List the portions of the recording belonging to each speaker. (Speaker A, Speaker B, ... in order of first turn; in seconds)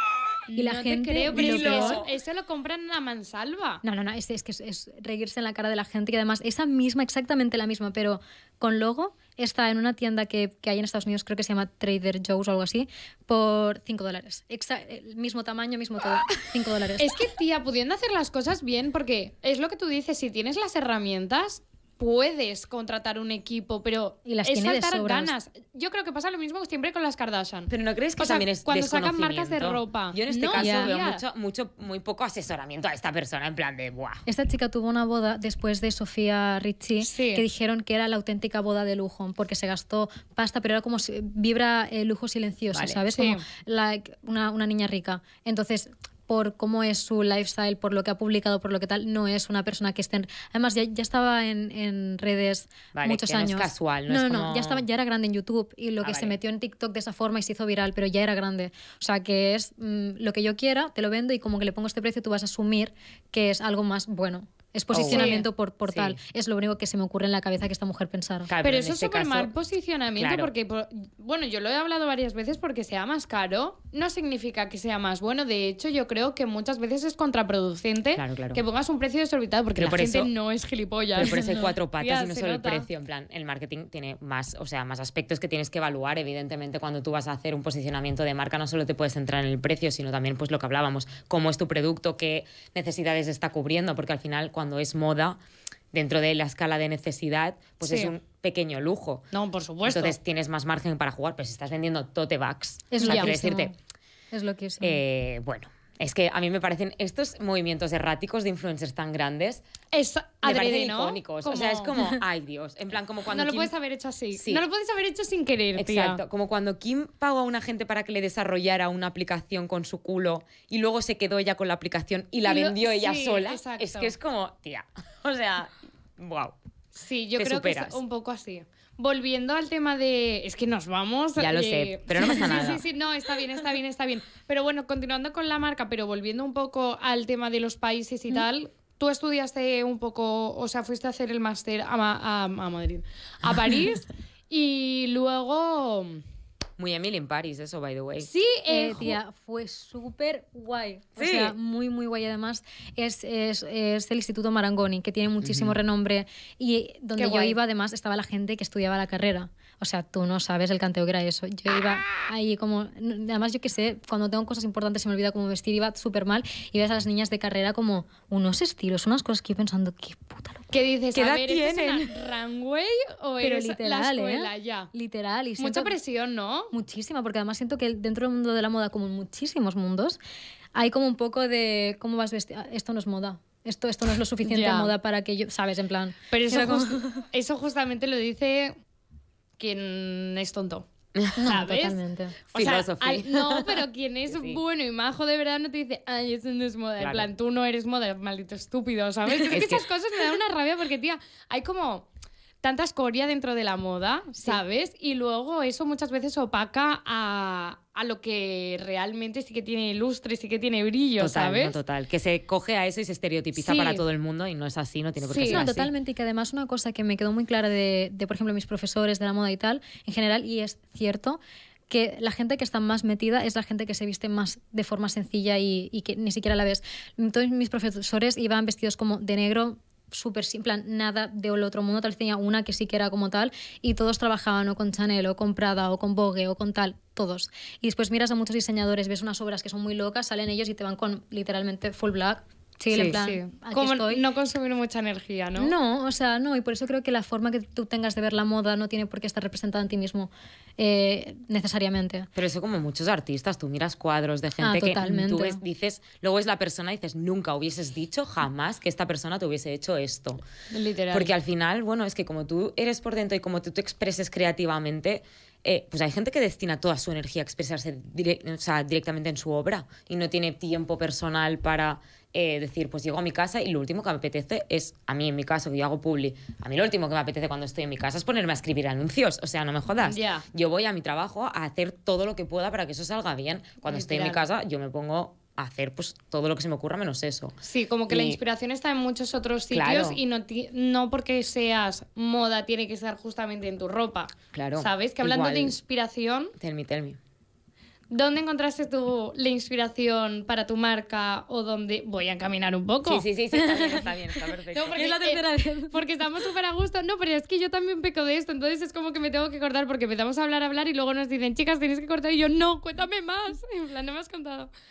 Speaker A: 0.5-3.8, 17.0-31.2, 37.0-37.5, 43.1-43.4, 65.1-65.5, 68.6-81.4, 82.0-82.9, 97.8-98.1, 99.3-100.2, 103.0-103.3, 109.9-111.9, 113.3-116.2, 122.5-124.1, 127.0-146.2, 148.2-149.2, 157.2-157.6, 170.7-174.9, 175.6-176.7, 184.4-184.9, 186.3-188.8, 189.6-190.9, 191.4-192.0, 192.5-202.1, 202.6-211.8, 213.6-214.0, 215.3-215.7, 242.9-245.7, 260.7-261.3, 280.0-280.4, 283.8-284.4, 287.6-296.5, 298.1-303.2, 304.7-314.7
Speaker B: 0.6-2.0, 3.8-17.3, 24.3-25.3, 30.5-30.9, 34.3-68.5, 81.3-81.7, 102.9-103.8, 104.3-105.0, 148.7-170.7, 173.4-175.9, 176.7-180.2, 180.8-187.2, 191.4-192.4, 215.4-244.2, 245.6-252.3, 254.6-255.6, 303.5-304.0, 304.9-306.1
Speaker C: 1.3-2.1, 27.7-34.2, 42.7-43.0, 52.9-54.8, 56.0-56.3, 64.9-66.2, 68.5-69.5, 70.2-70.5, 78.2-78.6, 79.8-80.3, 81.1-95.4, 95.9-99.2, 99.8-103.7, 104.8-109.6, 110.4-113.7, 114.3-114.6, 115.8-126.5, 127.4-128.0, 131.4-132.8, 146.8-148.3, 151.2-151.5, 155.4-155.8, 171.1-172.2, 192.5-194.6, 197.0-197.3, 199.5-199.8, 211.2-215.9, 242.9-243.2, 252.3-260.4, 261.1-287.6, 288.1-288.4, 289.7-290.2, 294.5-295.8, 296.6-297.2, 303.0-305.0